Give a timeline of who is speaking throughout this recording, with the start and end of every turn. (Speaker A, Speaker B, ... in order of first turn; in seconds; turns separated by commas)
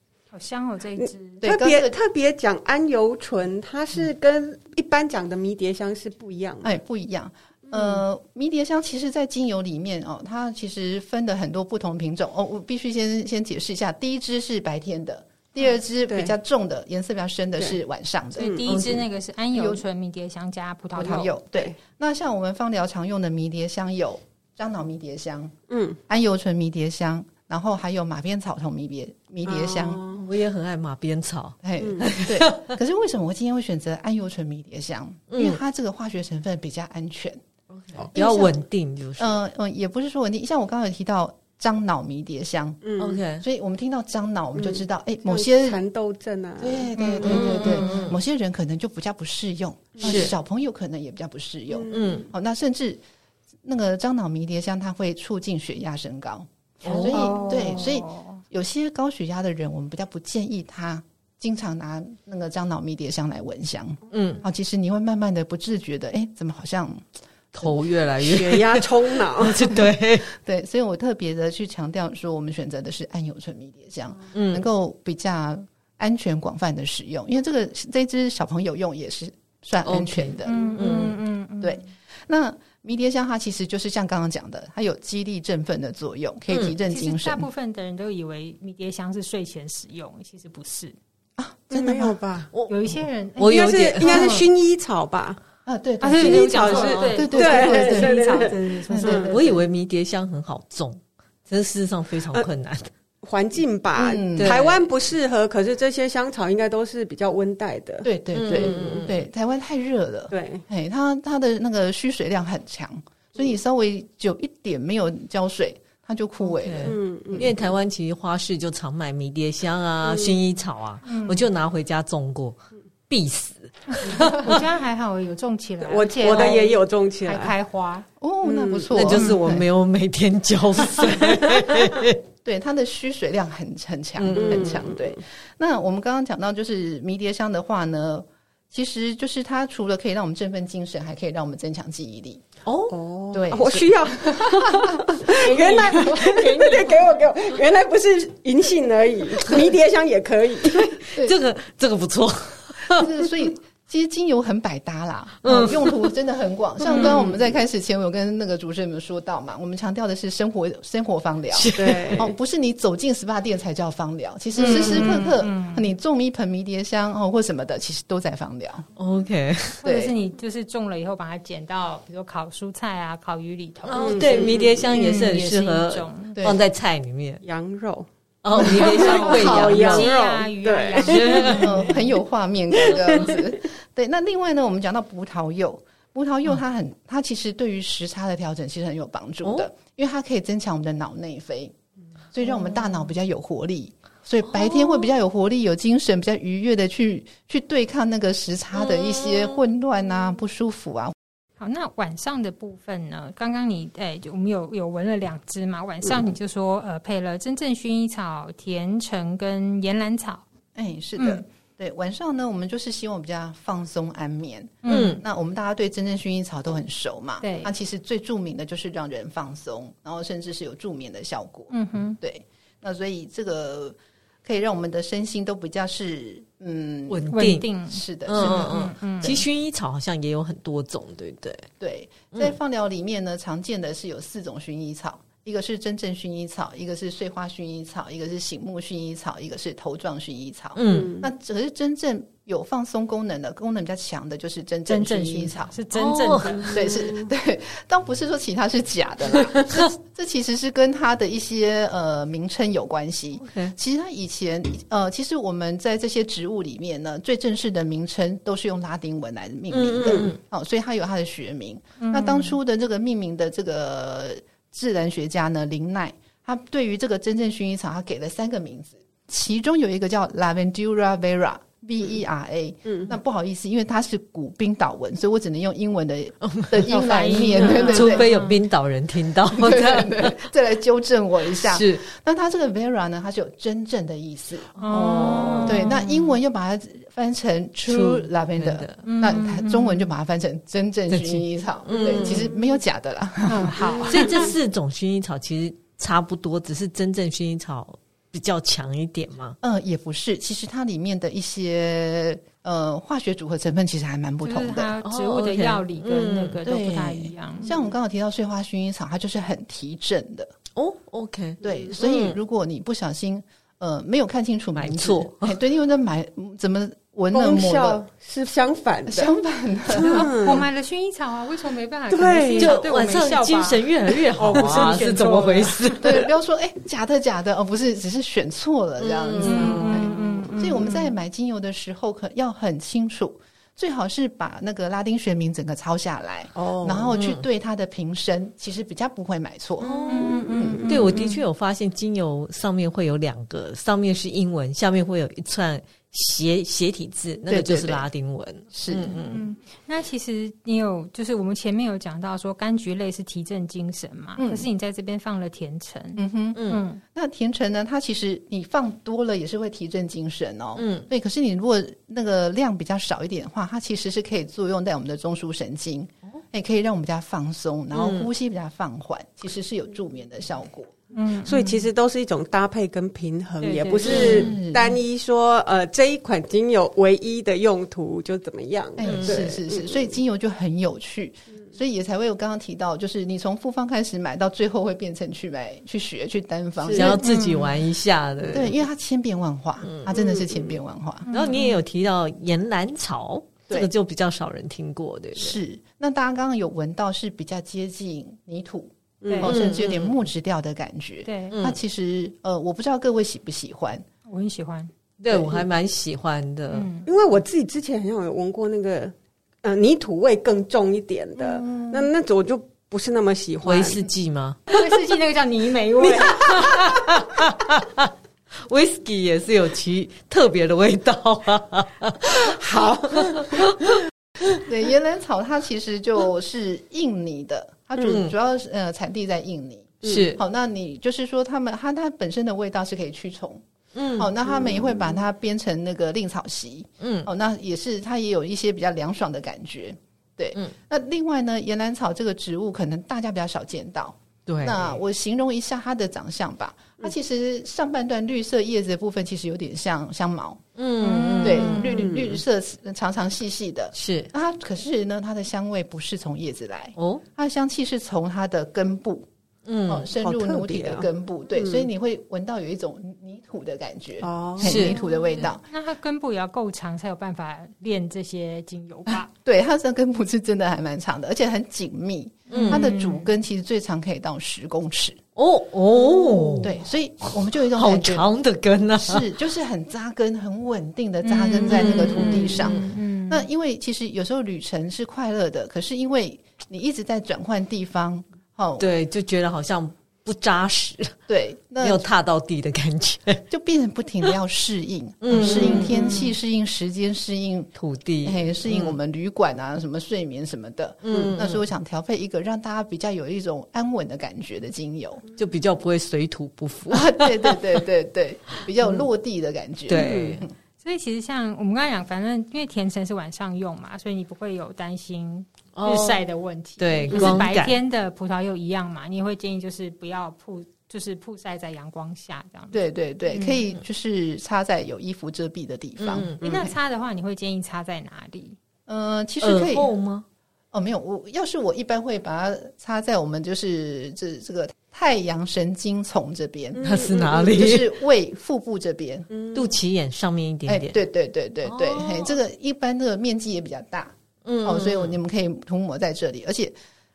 Speaker A: 0.3-1.4, Speaker B: 1.0-6.7, Speaker C: 1.4-2.0, Speaker C: 6.6-18.8, Speaker B: 7.7-8.0, Speaker B: 16.1-16.3, Speaker B: 18.4-18.7, Speaker A: 18.4-21.3, Speaker D: 18.7-18.9, Speaker C: 19.5-19.8, Speaker C: 20.9-25.5, Speaker B: 25.7-26.0, Speaker C: 26.1-30.0, Speaker B: 29.4-30.2, Speaker D: 30.1-32.8, Speaker C: 31.6-37.4, Speaker B: 31.8-32.1, Speaker D: 35.3-35.6, Speaker D: 37.7-39.4, Speaker C: 38.1-38.6, Speaker C: 39.2-42.8, Speaker B: 42.8-43.2, Speaker D: 43.0-43.4, Speaker C: 43.3-45.8, Speaker B: 44.5-47.9, Speaker C: 46.6-53.0, Speaker A: 47.0-47.3, Speaker D: 47.2-48.2, Speaker B: 50.0-50.2, Speaker D: 50.0-50.3, Speaker B: 51.7-52.3, Speaker D: 51.9-52.3, Speaker C: 53.6-67.7, Speaker D: 56.8-57.4, Speaker A: 57.1-58.4, Speaker D: 64.1-64.4, Speaker D: 67.5-70.3, Speaker B: 68.2-69.7, Speaker C: 69.7-80.8, Speaker D: 74.3-74.7, Speaker D: 79.8-81.2, Speaker A: 80.5-81.8, Speaker C: 81.6-87.5, Speaker D: 86.5-86.7, Speaker A: 86.9-91.0, Speaker C: 91.4-92.2, Speaker B: 91.7-92.5, Speaker D: 92.5-94.4, Speaker A: 92.7-94.5, Speaker B: 93.5-95.4, Speaker C: 95.7-99.6, Speaker A: 96.0-99.4, Speaker B: 96.2-99.3, Speaker D: 99.2-102.9, Speaker B: 103.2-109.0, Speaker C: 104.0-104.6, Speaker D: 104.4-104.9, Speaker C: 108.0-117.5, Speaker D: 108.3-109.2, Speaker B: 110.3-110.6, Speaker D: 116.5-122.6, Speaker B: 116.8-117.5, Speaker B: 120.0-120.4, Speaker A: 121.0-121.5, Speaker D: 123.1-124.6, Speaker A: 124.0-128.1, Speaker B: 125.8-127.5, Speaker C: 128.2-129.7, Speaker B: 128.4-128.9, Speaker D: 128.9-132.2, Speaker C: 132.4-142.4, Speaker D: 134.2-134.9, Speaker B: 134.3-135.2, Speaker D: 142.7-143.0, Speaker B: 142.9-150.9, Speaker C: 143.3-145.3, Speaker A: 145.4-146.9, Speaker D: 150.7-153.2, Speaker C: 152.9-168.8, Speaker D: 155.4-156.1, Speaker B: 156.9-157.4, Speaker D: 161.5-162.3, Speaker B: 161.7-162.3, Speaker A: 164.6-165.9, Speaker D: 168.9-169.8, Speaker A: 169.8-176.4, Speaker C: 169.8-170.1, Speaker D: 173.9-177.4, Speaker B: 173.9-174.8, Speaker B: 177.4-181.7, Speaker D: 178.4-180.1, Speaker A: 178.6-181.7, Speaker D: 181.0-181.8, Speaker C: 181.5-191.7, Speaker B: 182.8-183.4, Speaker C: 192.3-201.1, Speaker D: 194.6-195.0, Speaker D: 198.8-199.6, Speaker A: 201.6-210.4, Speaker C: 210.7-227.2, Speaker A: 211.2-211.4, Speaker A: 214.8-215.2, Speaker D: 214.8-215.2, Speaker A: 217.4-217.7, Speaker A: 221.7-222.2, Speaker D: 227.1-227.7, Speaker A: 227.3-229.4, Speaker C: 227.9-229.4, Speaker D: 228.2-231.7, Speaker C: 231.8-245.7, Speaker D: 240.8-241.1, Speaker B: 240.9-241.3, Speaker A: 244.9-246.9, Speaker D: 245.9-246.7, Speaker C: 246.6-278.3, Speaker D: 253.4-253.7, Speaker D: 259.7-260.4, Speaker A: 262.0-262.6, Speaker B: 272.9-273.1, Speaker D: 276.4-276.9, Speaker A: 276.9-278.6, Speaker D: 277.9-280.4, Speaker C: 279.5-284.8, Speaker D: 281.6-282.0, Speaker A: 284.8-286.3, Speaker D: 284.8-285.9, Speaker C: 285.6-293.9, Speaker D: 287.9-289.0, Speaker A: 289.0-290.1, Speaker D: 291.1-292.5, Speaker B: 292.0-292.5, Speaker A: 293.4-294.5, Speaker B: 293.8-294.5, Speaker D: 294.1-299.6, Speaker C: 299.6-304.9, Speaker A: 304.4-307.7, Speaker D: 305.0-306.6, Speaker C: 306.6-310.5, Speaker D: 310.8-312.4, Speaker C: 311.6-318.0, Speaker B: 311.6-311.9, Speaker D: 314.8-315.6, Speaker B: 317.3-319.3, Speaker C: 319.1-320.3, Speaker A: 319.9-326.0, Speaker B: 320.0-320.7, Speaker B: 322.1-322.8, Speaker D: 322.5-326.3, Speaker B: 324.6-324.9, Speaker C: 326.0-340.8, Speaker D: 329.0-330.1, Speaker A: 329.4-331.1, Speaker B: 336.6-337.1, Speaker D: 337.1-337.4, Speaker D: 339.8-349.4, Speaker A: 340.1-341.4, Speaker B: 340.1-341.1, Speaker C: 347.5-348.1, Speaker C: 348.7-349.2, Speaker A: 349.3-357.0, Speaker C: 354.4-354.7, Speaker C: 356.2-370.9, Speaker D: 356.5-356.8, Speaker D: 360.8-361.1, Speaker D: 367.9-368.3, Speaker A: 371.1-371.9, Speaker B: 371.4-380.1, Speaker A: 373.6-374.5, Speaker C: 374.0-374.9, Speaker D: 374.1-374.6, Speaker C: 379.0-387.2, Speaker D: 379.0-379.5, Speaker B: 386.8-387.2, Speaker D: 386.9-388.8, Speaker A: 387.2-387.8, Speaker C: 388.5-391.3, Speaker B: 390.1-390.8, Speaker A: 391.2-391.8, Speaker D: 391.3-395.6, Speaker C: 395.4-404.0, Speaker B: 399.2-399.5, Speaker D: 399.4-400.1, Speaker A: 401.2-401.6, Speaker D: 401.5-401.8, Speaker A: 404.3-404.9, Speaker D: 405.2-406.9, Speaker C: 405.3-405.6, Speaker A: 406.7-407.1, Speaker B: 407.1-414.0, Speaker C: 411.4-412.1, Speaker D: 413.6-414.6, Speaker A: 414.7-416.7, Speaker D: 416.0-418.1, Speaker D: 418.6-422.6, Speaker B: 422.3-423.7, Speaker D: 423.1-423.9, Speaker C: 424.6-433.6, Speaker D: 428.0-428.3, Speaker B: 430.0-430.3, Speaker D: 430.0-430.4, Speaker D: 433.9-434.3, Speaker C: 434.1-450.6, Speaker D: 437.0-437.3, Speaker D: 444.5-444.9, Speaker D: 450.8-451.9, Speaker A: 451.0-452.1, Speaker C: 451.4-459.3, Speaker B: 451.9-452.4, Speaker D: 453.9-454.3, Speaker D: 457.0-457.2, Speaker D: 459.6-460.1, Speaker C: 459.9-465.6, Speaker B: 460.1-461.9, Speaker B: 464.2-465.0, Speaker D: 464.6-464.9, Speaker A: 464.9-469.3, Speaker C: 469.3-475.2, Speaker A: 472.5-473.3, Speaker D: 472.5-472.8, Speaker D: 475.4-476.8, Speaker C: 476.6-478.3, Speaker D: 477.7-479.3, Speaker C: 479.0-488.9, Speaker A: 481.2-483.4, Speaker D: 481.7-482.9, Speaker D: 488.8-491.2, Speaker C: 491.3-492.1, Speaker D: 491.8-493.4, Speaker C: 493.5-505.2, Speaker D: 495.2-496.1, Speaker B: 495.4-496.2, Speaker D: 497.8-498.9, Speaker D: 501.0-501.6, Speaker D: 505.4-507.8, Speaker C: 506.9-510.5, Speaker D: 509.9-510.4, Speaker A: 510.8-523.6, Speaker D: 515.8-516.2, Speaker D: 516.8-517.8, Speaker B: 517.1-517.4, Speaker C: 522.7-526.7, Speaker D: 526.0-526.4, Speaker A: 526.4-528.6, Speaker C: 528.9-529.9, Speaker D: 529.4-530.2, Speaker C: 530.7-536.8, Speaker B: 536.7-537.6, Speaker D: 536.8-537.9, Speaker C: 537.4-539.3, Speaker B: 539.3-539.7, Speaker D: 539.5-541.0, Speaker C: 540.7-546.7, Speaker D: 541.6-542.4, Speaker D: 544.4-545.2